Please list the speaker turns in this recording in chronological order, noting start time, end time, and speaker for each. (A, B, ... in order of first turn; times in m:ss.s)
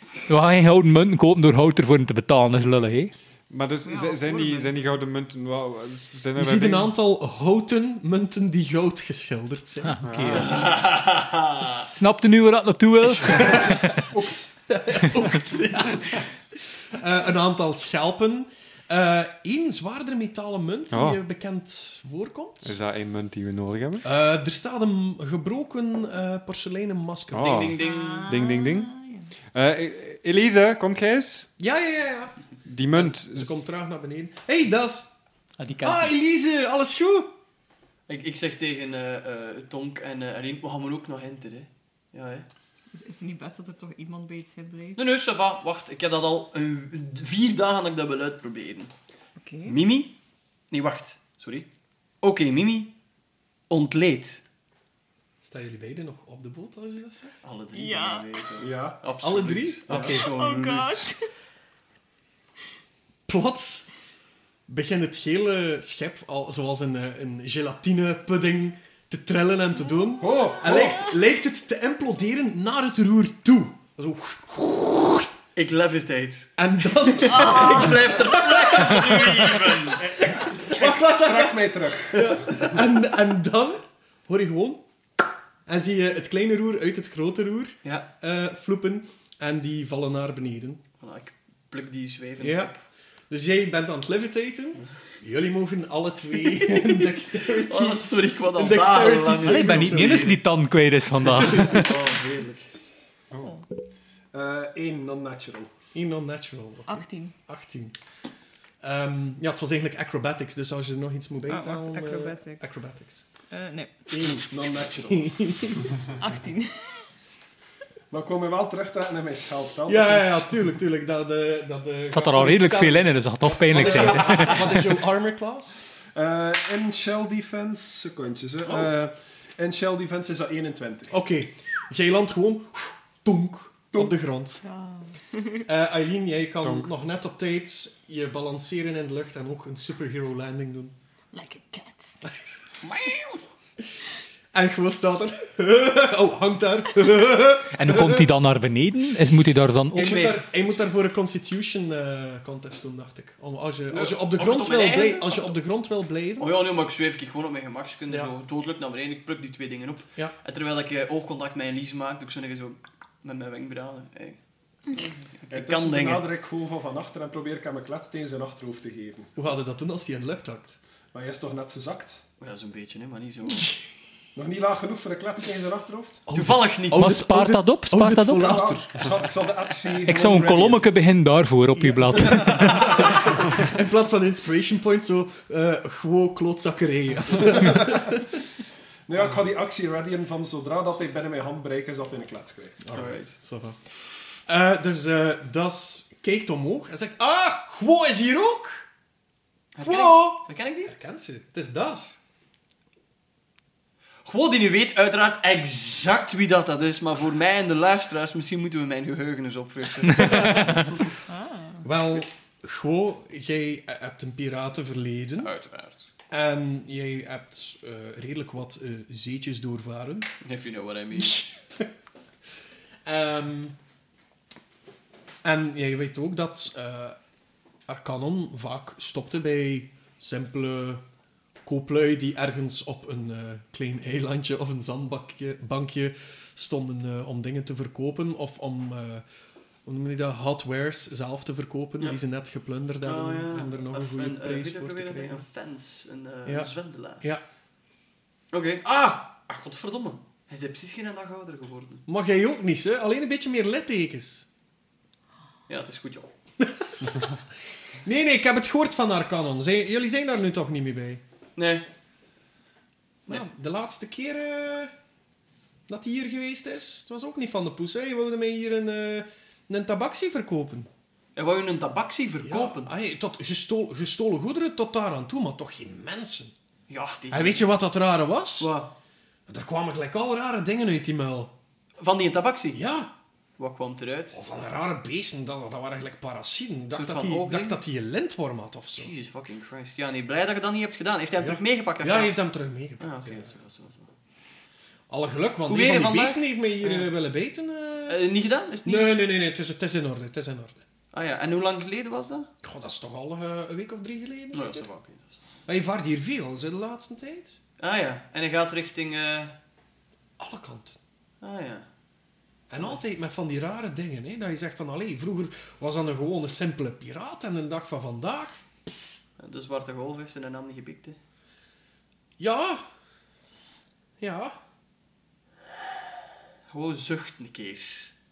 0:00.3-0:03.1 A
0:03.5-0:06.9 B
0:03.9-0:04.7 C
0:06.4-0:10.0 D
0:09.8-0:10.5 A
0:10.0-0:10.6 B
0:10.3-0:11.9 E
0:11.9-0:14.1 A
0:13.2-0:14.0 D
0:14.1-0:14.5 F
0:14.7-0:22.8 D
0:20.9-0:21.2 B
0:22.6-0:24.1 B
0:24.0-0:27.7 D
0:27.3-0:31.5 B
0:27.4-0:28.4 E
0:27.8-0:29.3 C
0:31.6-0:35.1 D
0:32.6-0:33.6 B
0:35.6-0:36.1 A
0:35.8-0:37.3 D
0:38.1-0:42.5 E
0:42.9-0:45.0 C
0:45.0-0:48.9 E
0:49.4-0:49.8 C
0:49.7-0:50.2 E
0:50.7-0:51.7 E
0:52.2-0:52.9 E
0:53.7-0:54.4 E
0:55.4-0:57.4 D
0:57.4-1:01.1 E
0:57.8-0:58.5 C
0:58.6-0:59.0 F
0:59.2-1:00.3 D
1:00.0-1:01.2 C
1:03.3-1:03.9 D
1:04.7-1:15.3 D
1:10.2-1:11.0 F
1:15.6-1:16.5 E
1:16.6-1:19.0 D
1:17.0-1:20.2 E
1:20.0-1:22.6 F
1:20.5-1:24.8 D
1:25.7-1:30.8 D
1:31.0-1:32.8 E
1:32.4-1:32.7 D
1:33.3-1:40.4 D
1:36.7-1:37.0 E
1:37.6-1:40.2 E
1:39.4-1:42.0 A
1:41.4-1:42.7 E
1:41.4-1:41.7 D
1:44.3-1:45.7 F
1:45.9-1:48.0 D
1:46.9-1:47.3 C
1:48.8-1:53.2 D
1:51.5-1:52.6 C
1:53.5-1:54.0 C
1:54.1-1:55.3 F
1:55.1-1:55.9 D
1:56.2-1:57.0 C
1:58.1-2:00.5 F
1:59.9-2:05.8 D
2:02.1-2:04.9 A
2:03.8-2:04.4 F
2:06.2-2:11.1 F
2:11.1-2:14.6 D
2:14.6-2:15.6 C
2:15.6-2:21.0 D
2:16.6-2:16.9 B
2:21.3-2:22.2 C
2:22.8-2:23.4 E
2:24.5-2:28.3 D
2:27.7-2:30.3 A
2:29.9-2:36.6 D
2:30.0-2:30.4 E
2:33.9-2:35.5 E
2:36.4-2:44.4 E
2:45.4-2:46.2 E
2:45.5-2:49.3 F
2:49.4-2:50.8 D
2:51.1-2:52.2 F
2:52.4-2:53.7 E
2:54.4-2:56.2 F
2:56.3-2:59.2 D
2:56.3-2:57.1 E
2:56.9-2:58.5 A
2:58.4-3:00.9 F
3:00.1-3:03.0 A
3:01.7-3:08.4 D
3:09.1-3:12.8 F
3:12.8-3:13.8 D
3:12.9-3:13.3 E
3:14.5-3:18.9 D
3:19.8-3:20.9 E
3:19.8-3:22.2 D
3:24.2-3:30.8 E
3:30.2-3:30.9 D
3:30.2-3:30.8 A
3:31.3-3:31.8 C
3:31.8-3:35.5 D
3:35.4-3:36.1 E
3:36.3-3:40.3 D
3:40.4-3:41.4 E
3:41.2-3:41.9 D
3:43.1-3:43.8 D
3:45.4-3:47.2 D
3:47.9-3:51.0 D
3:51.6-3:59.2 D
3:59.8-4:05.5 D
4:03.0-4:07.3 E
4:06.4-4:07.4 D
4:08.5-4:12.0 E
4:12.1-4:14.5 D
4:15.7-4:16.3 E
4:16.6-4:17.4 D
4:18.0-4:21.2 D
4:21.6-4:21.9 E
4:23.3-4:24.9 D
4:25.9-4:30.9 D
4:31.4-4:32.9 E
4:32.4-4:36.5 D
4:36.9-4:37.7 E
4:37.3-4:38.8 D
4:38.6-4:38.9 E
4:39.5-4:41.5 D
4:42.0-4:42.8 E
4:42.7-4:43.1 D
4:43.6-4:44.4 E
4:44.3-4:49.1 D
4:47.0-4:47.8 E
4:49.0-4:52.4 E
4:51.4-4:53.5 D
4:53.0-4:54.1 E
4:55.1-4:58.2 D
4:55.7-4:57.1 E
4:58.1-4:59.2 E
4:58.8-5:00.8 D
5:01.1-5:02.5 E
5:02.6-5:04.9 D
5:04.5-5:05.4 E
5:05.7-5:07.6 D
5:07.8-5:09.6 E
5:10.4-5:11.0 D
5:11.4-5:11.9 E
5:12.7-5:18.6 D
5:19.4-5:21.2 E
5:22.4-5:22.8 D
5:24.2-5:24.6 D
5:26.7-5:28.1 E